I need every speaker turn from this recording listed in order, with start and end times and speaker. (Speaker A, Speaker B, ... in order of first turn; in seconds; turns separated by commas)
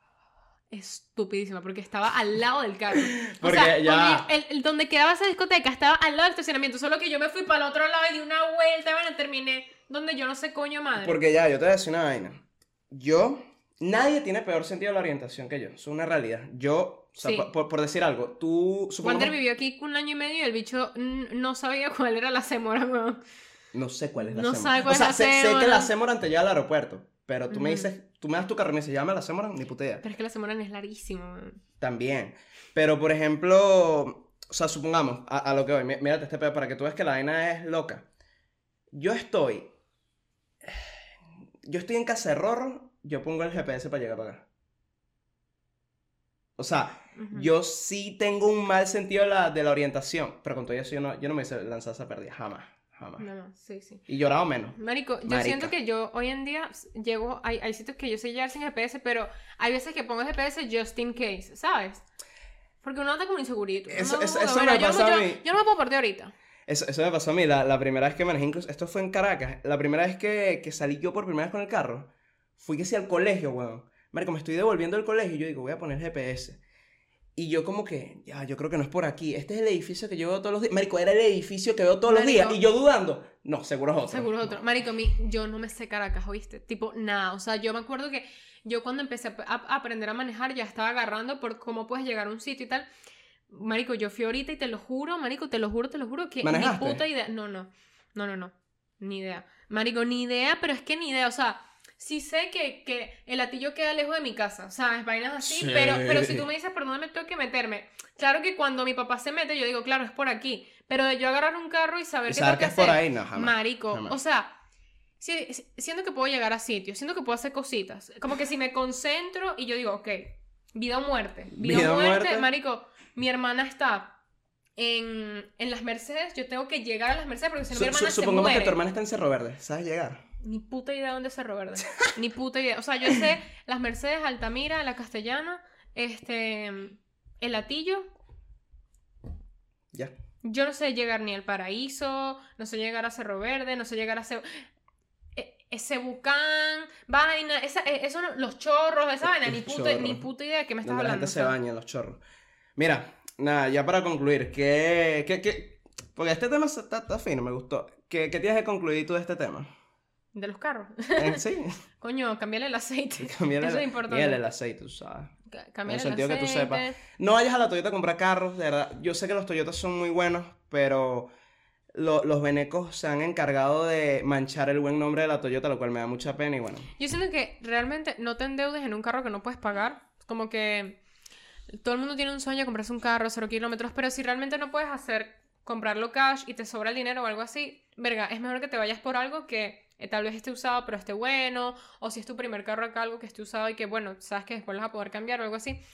Speaker A: 0.7-11.2, Speaker B: 3.0-4.3, Speaker B: 11.0-19.3, Speaker A: 17.2-17.5, Speaker A: 19.0-23.2, Speaker B: 23.7-30.0, Speaker A: 24.2-25.9, Speaker A: 27.5-27.9, Speaker A: 30.0-31.6, Speaker B: 31.8-38.0, Speaker B: 38.9-39.7, Speaker B: 41.7-44.5, Speaker B: 46.6-53.3, Speaker A: 47.2-47.5, Speaker A: 53.2-54.0, Speaker B: 54.1-55.7, Speaker A: 54.8-62.0, Speaker A: 62.8-66.3, Speaker B: 63.9-65.4, Speaker B: 66.7-76.6, Speaker B: 77.4-84.5, Speaker A: 82.1-82.6, Speaker A: 84.1-92.9, Speaker A: 93.5-114.6, Speaker B: 96.4-97.0, Speaker B: 105.4-106.5, Speaker B: 112.3-114.2, Speaker A: 115.2-124.2, Speaker B: 121.5-122.5, Speaker A: 124.8-128.8, Speaker B: 127.7-130.2, Speaker A: 130.4-138.1, Speaker A: 140.4-144.6, Speaker A: 145.4-151.6, Speaker B: 149.2-150.2, Speaker B: 150.8-152.2, Speaker B: 152.8-159.7, Speaker A: 160.3-161.4, Speaker B: 161.2-161.8, Speaker A: 162.0-164.4, Speaker B: 163.2-165.3, Speaker A: 165.5-167.0, Speaker B: 165.9-171.3, Speaker B: 171.9-176.9, Speaker A: 177.0-181.0, Speaker A: 181.8-195.8